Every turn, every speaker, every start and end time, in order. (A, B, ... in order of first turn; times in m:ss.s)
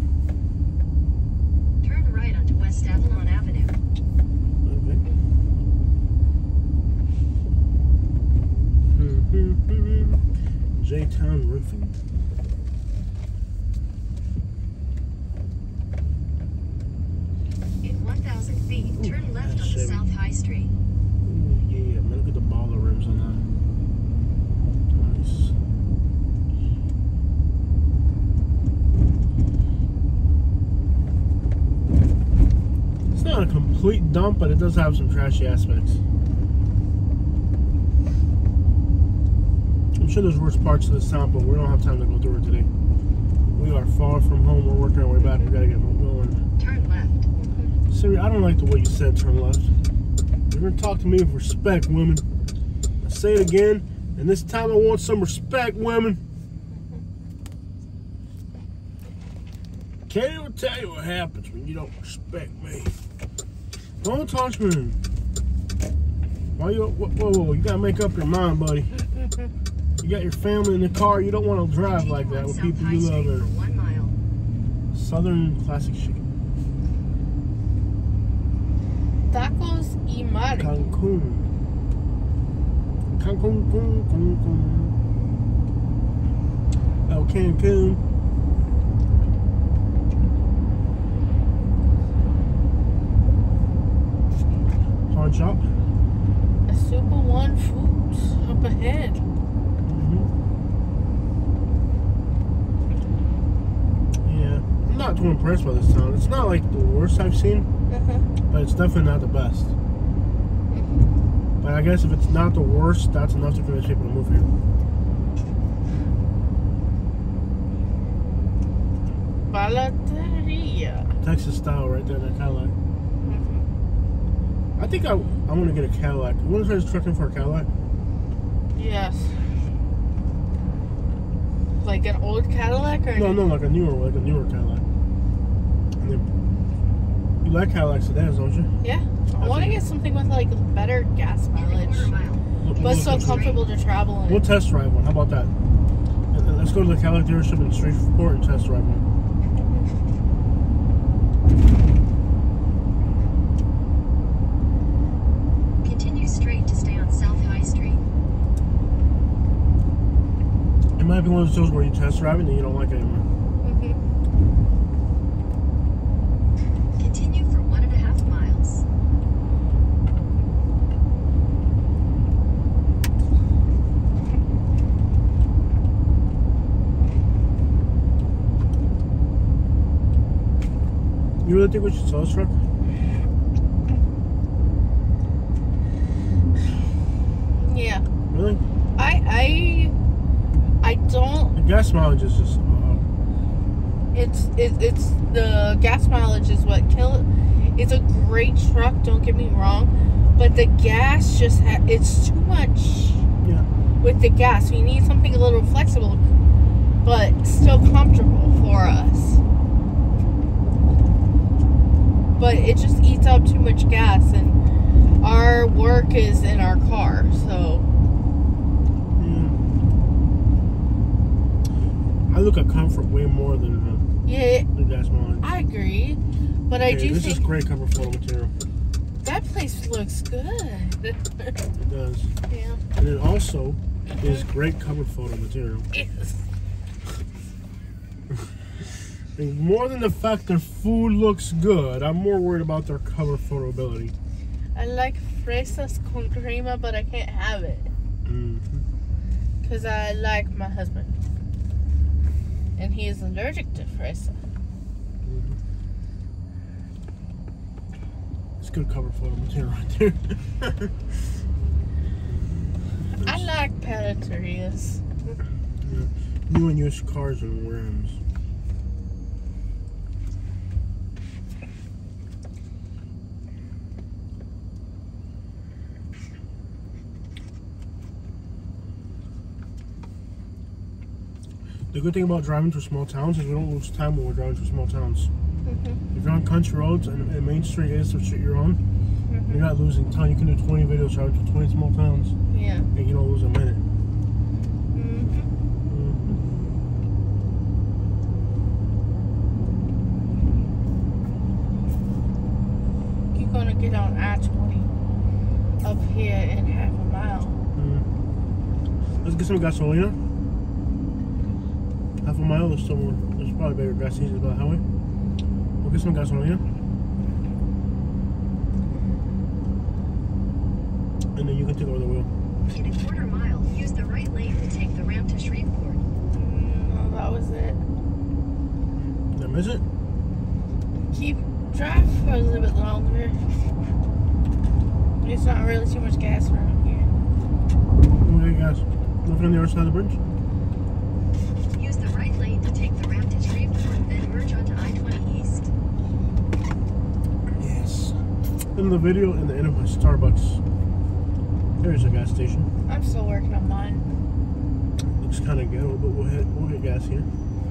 0:01.8-0:03.8 A
0:04.6-0:05.0 B
0:08.9-0:10.2 B
0:10.8-0:12.0 B
0:17.8-0:20.7 A
0:19.0-0:20.2 B
0:21.2-0:23.4 B
0:24.9-0:25.5 B
0:33.1-0:36.0 B
0:40.0-0:42.7 B
0:43.6-0:46.4 B
0:46.6-0:47.3 A
0:47.4-0:47.7 C
0:47.9-0:49.7 B
0:50.5-0:52.2 B
0:53.0-0:56.2 B
0:56.7-0:57.0 C
1:00.1-1:02.9 B
1:04.0-1:05.0 B
1:06.6-1:09.0 B
1:10.0-1:13.5 B
1:11.8-1:14.2 A
1:14.9-1:16.2 B
1:19.3-1:20.8 C
1:20.6-1:21.5 B
1:23.2-1:24.9 B
1:27.1-1:28.0 B
1:35.1-1:35.7 B
1:36.7-1:39.2 C
1:39.8-1:40.3 B
1:44.2-1:47.7 B
1:47.9-1:48.2 C
1:48.5-1:49.7 B
1:50.7-1:51.0 C
1:51.6-1:54.5 B
1:59.5-2:01.1 C
2:01.2-2:02.8 B
2:03.2-2:03.7 C
2:04.8-2:07.7 B
2:08.8-2:09.4 C
2:11.8-2:13.4 C
2:13.2-2:14.8 B
2:16.0-2:16.3 B
2:17.4-2:18.7 B
2:18.8-2:22.1 C
2:19.4-2:19.8 B
2:21.5-2:23.7 A
2:22.6-2:23.6 B
2:22.8-2:24.4 C
2:24.3-2:25.5 B
2:26.3-2:29.0 B
2:35.8-2:38.0 A
2:41.0-2:43.3 B
2:43.6-2:44.0 C
2:47.0-2:48.8 A
3:01.4-3:02.6 B
3:07.6-3:08.0 C
3:08.3-3:08.6 B
3:09.0-3:09.9 C
3:10.8-3:11.6 C
3:11.5-3:13.0 B
3:14.1-3:23.2 C
3:24.0-3:26.3 C
3:27.0-3:29.4 C
3:32.3-3:34.6 C
3:35.2-3:37.9 C
3:39.2-3:39.6 B
3:42.3-3:44.1 B
3:44.2-3:44.7 C
3:44.7-3:45.5 B
3:45.4-3:47.5 C
3:46.7-3:48.5 B
3:49.2-3:51.6 C
3:51.8-3:52.3 B
3:52.5-3:52.8 C
3:53.0-3:55.9 B
3:55.9-3:56.4 C
3:59.4-4:04.1 B
4:04.8-4:07.9 C
4:08.3-4:08.9 B
4:09.6-4:11.1 C
4:12.8-4:14.4 C
4:15.2-4:15.6 B
4:18.6-4:21.1 B
4:23.2-4:23.5 B
4:23.2-4:25.0 C
4:25.8-4:28.2 B
4:41.9-4:45.3 B
4:45.7-4:46.0 C
4:46.1-4:48.8 B
4:49.3-4:49.6 C
4:49.5-4:52.4 B
4:52.5-4:52.9 C
4:52.9-4:53.8 B
4:54.9-4:55.5 C
4:55.9-4:56.4 B
5:03.3-5:04.9 C
5:05.8-5:07.6 C
5:07.8-5:08.1 B
5:09.2-5:10.2 B
5:12.2-5:14.8 B
5:15.8-5:16.6 B
5:21.4-5:22.3 B
5:22.7-5:26.0 A
5:26.3-5:27.8 C
5:29.3-5:29.8 B
5:31.1-5:33.4 C
5:35.2-5:37.1 C
5:38.0-5:40.2 B
5:41.8-5:45.7 A
5:47.6-5:48.2 B
5:48.8-5:50.6 B
5:51.8-5:52.7 B
5:52.9-5:54.1 C
5:55.2-5:57.3 B